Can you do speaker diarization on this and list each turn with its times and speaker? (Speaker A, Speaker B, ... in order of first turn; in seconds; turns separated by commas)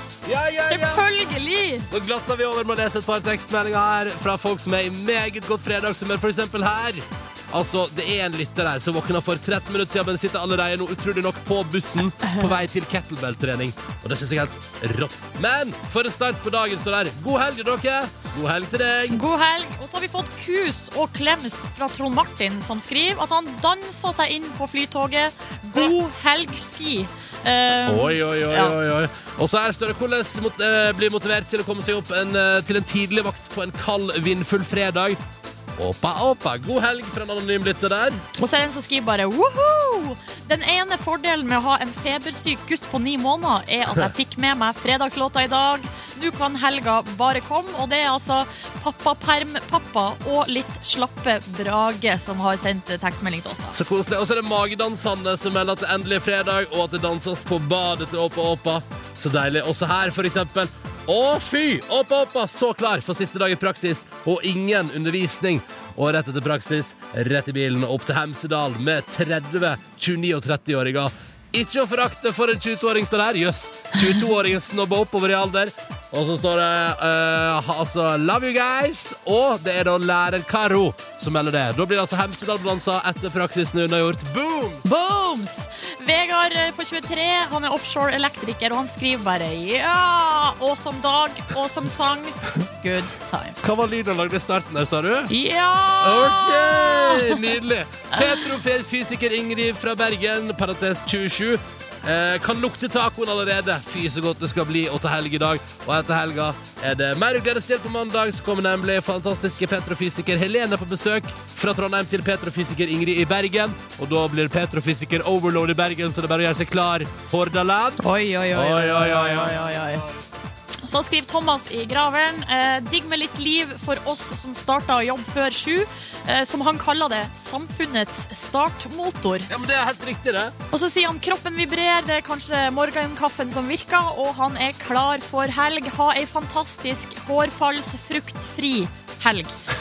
Speaker A: 0.2-1.1, Speaker B: 0.7-1.9, Speaker A: 1.9-19.2, Speaker B: 12.2-12.5, Speaker B: 19.1-28.8, Speaker A: 27.9-35.2, Speaker A: 35.8-38.2, Speaker B: 38.4-53.8, Speaker A: 53.7-84.9, Speaker B: 84.8-93.7, Speaker A: 93.6-95.3, Speaker B: 95.3-97.4, Speaker A: 96.0-118.0, Speaker B: 98.1-98.5, Speaker B: 118.0-120.0, Speaker A: 118.5-120.2, Speaker B: 120.8-129.5, Speaker A: 129.5-130.5, Speaker B: 130.7-139.6